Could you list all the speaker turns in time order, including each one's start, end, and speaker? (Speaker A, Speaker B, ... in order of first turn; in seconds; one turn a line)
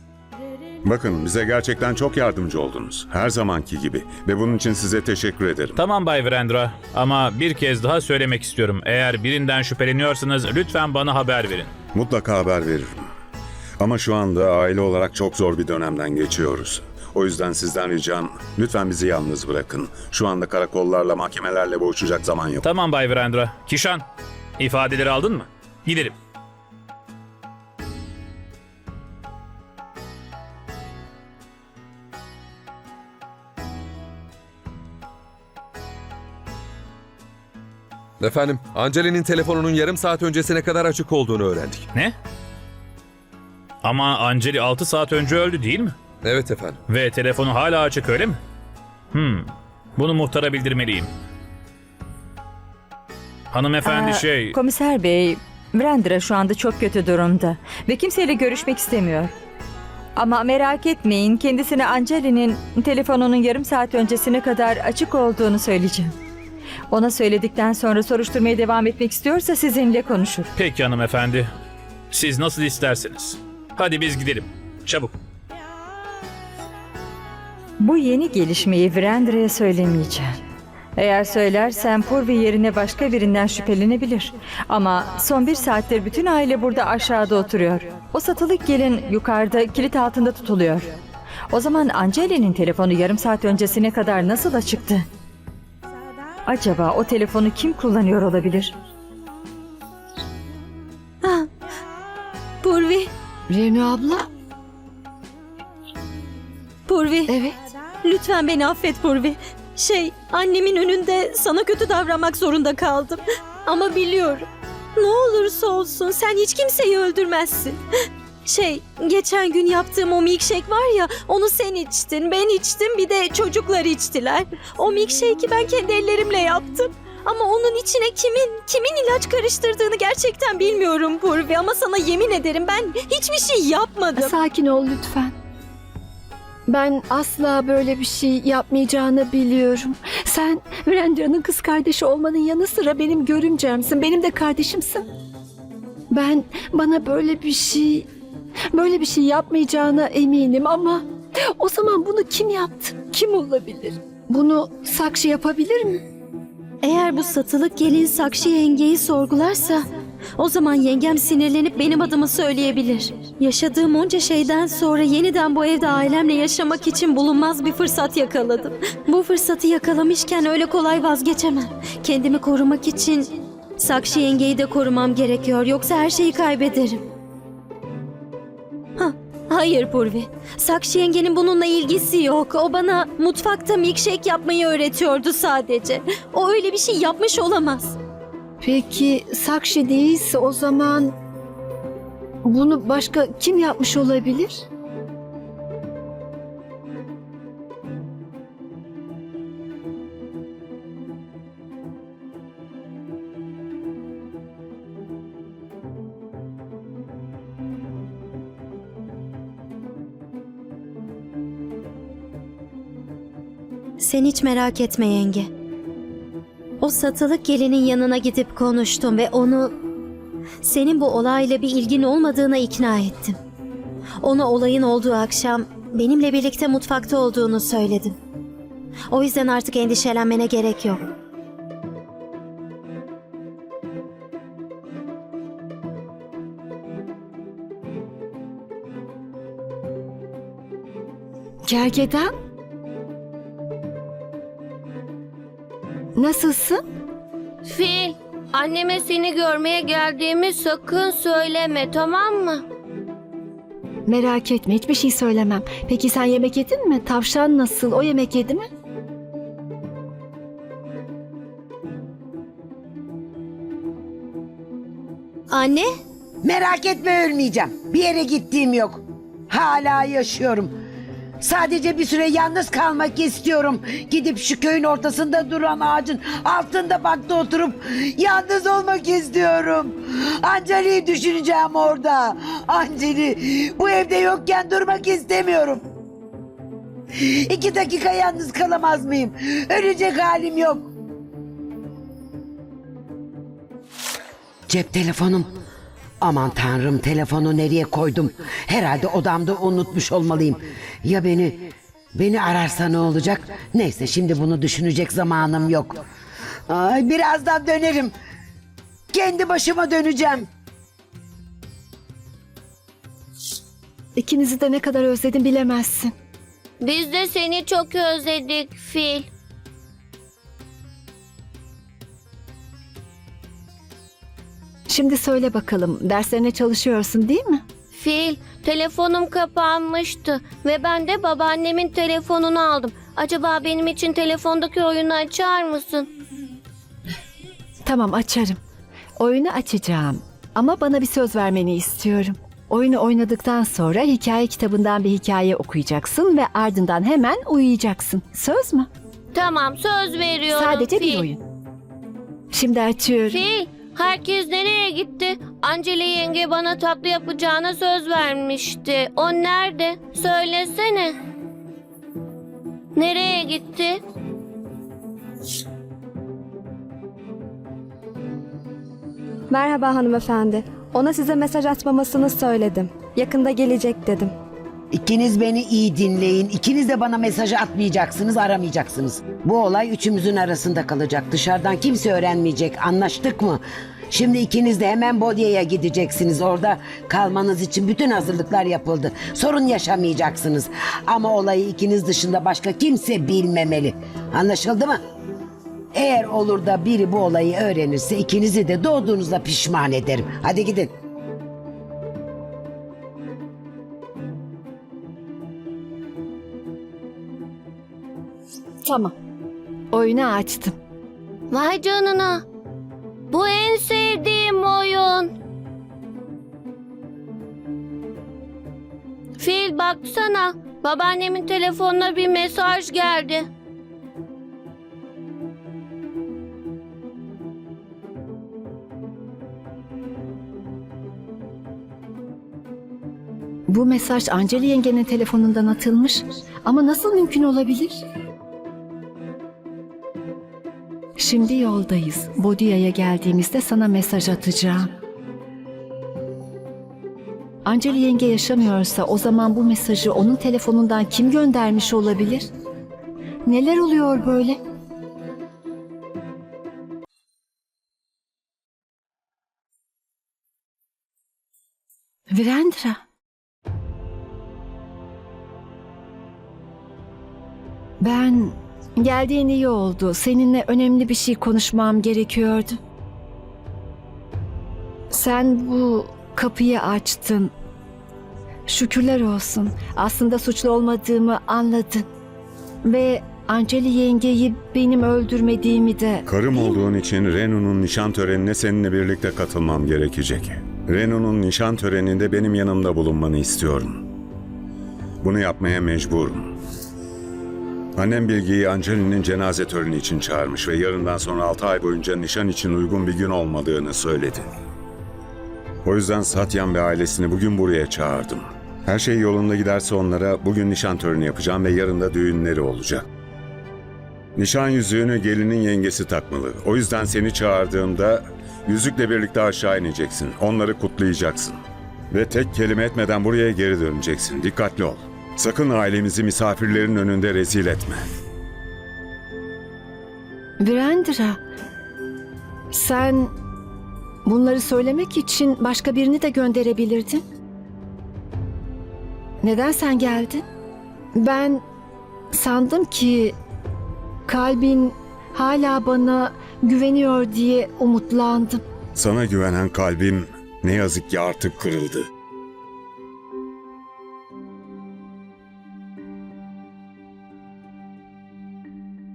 Speaker A: 0.8-5.8
Speaker B: 5.8-11.7
Speaker A: 11.9-13.0
Speaker A: 13.8-22.7
Speaker B: 22.6-24.0
Speaker B: 24.6-26.1
Speaker C: 38.2-41.9
Speaker B: 43.8-46.0
Speaker C: 46.2-46.8
Speaker B: 46.9-48.4
Speaker B: 49.1-51.1
Speaker B: 53.5-54.6
Speaker D: 53.8-59.3
Speaker D: 60.2-66.2
Speaker D: 66.9-70.5
Speaker B: 70.5-71.5
Speaker B: 72.1-75.1
Speaker D: 77.8-80.3
Speaker D: 81.0-90.9
Speaker D: 91.5-95.0
Speaker D: 96.5-98.7
Speaker E: 102.6-103.1
Speaker F: 103.5-104.3
Speaker E: 106.9-107.4
Speaker F: 107.3-107.6
Speaker E: 108.0-114.5
Speaker E: 115.0-117.8
Speaker E: 118.5-134.3
Speaker F: 134.2-135.3
Speaker F: 136.7-145.1
Speaker F: 146.1-148.1
Speaker F: 148.7-151.0
Speaker F: 151.6-156.0
Speaker E: 156.8-159.8
Speaker E: 160.4-177.0
Speaker E: 179.0-187.9
Speaker F: 188.6-191.1
Speaker F: 192.4-194.6
Speaker E: 214.0-215.5
Speaker E: 216.8-219.8
Speaker E: 220.6-223.4
Speaker E: 224.2-228.2
Speaker E: 229.1-231.0
Speaker F: 241.7-242.3
Speaker F: 246.2-246.8
Speaker G: 247.7-252.6
Speaker F: 254.1-258.6
Speaker E: 265.5-265.9
Speaker H: 266.4-270.7
Speaker H: 271.4-285.8
Speaker H: 287.2-290.9
Speaker H: 294.7-295.5
Speaker H: 296.2-306.0
Speaker H: 306.7-308.1
Speaker H: 309.1-310.5
Speaker F: 314.2-316.1
Speaker G: 316.8-319.3
Speaker F: 324.9-327.6
Speaker G: 327.9-336.1
Speaker F: 337.9-338.6
Speaker F: 339.2-348.9
Speaker G: 349.3-351.3
Speaker F: 350.5-351.4
Speaker F: 352.5-353.4
Speaker G: 353.3-361.1
Speaker G: 362.9-364.0
Speaker I: 369.5-374.3
Speaker H: 374.9-395.0
Speaker H: 395.9-400.9
Speaker F: 408.9-409.1
Speaker F: 409.9-410.7
Speaker G: 411.5-412.4
Speaker G: 413.3-415.3
Speaker G: 419.4-423.5
Speaker F: 433.7-438.0
Speaker F: 441.2-444.9
Speaker F: 447.6-452.4
Speaker F: 453.4-454.6
Speaker F: 462.3-463.0
Speaker F: 468.0-472.8
Speaker F: 475.1-477.5
Speaker F: 478.7-482.1
Speaker F: 482.8-486.2
Speaker A: 486.3-494.0
Speaker A: 495.2-496.5
Speaker A: 498.0-504.5
Speaker A: 505.9-513.0
Speaker A: 514.4-521.6
Speaker A: 522.1-528.0
Speaker F: 530.6-531.4
Speaker F: 532.7-533.3
Speaker F: 534.2-537.2
Speaker F: 539.4-540.5
Speaker F: 541.1-541.6
Speaker F: 542.3-543.4
Speaker F: 544.3-548.6
Speaker A: 549.0-552.1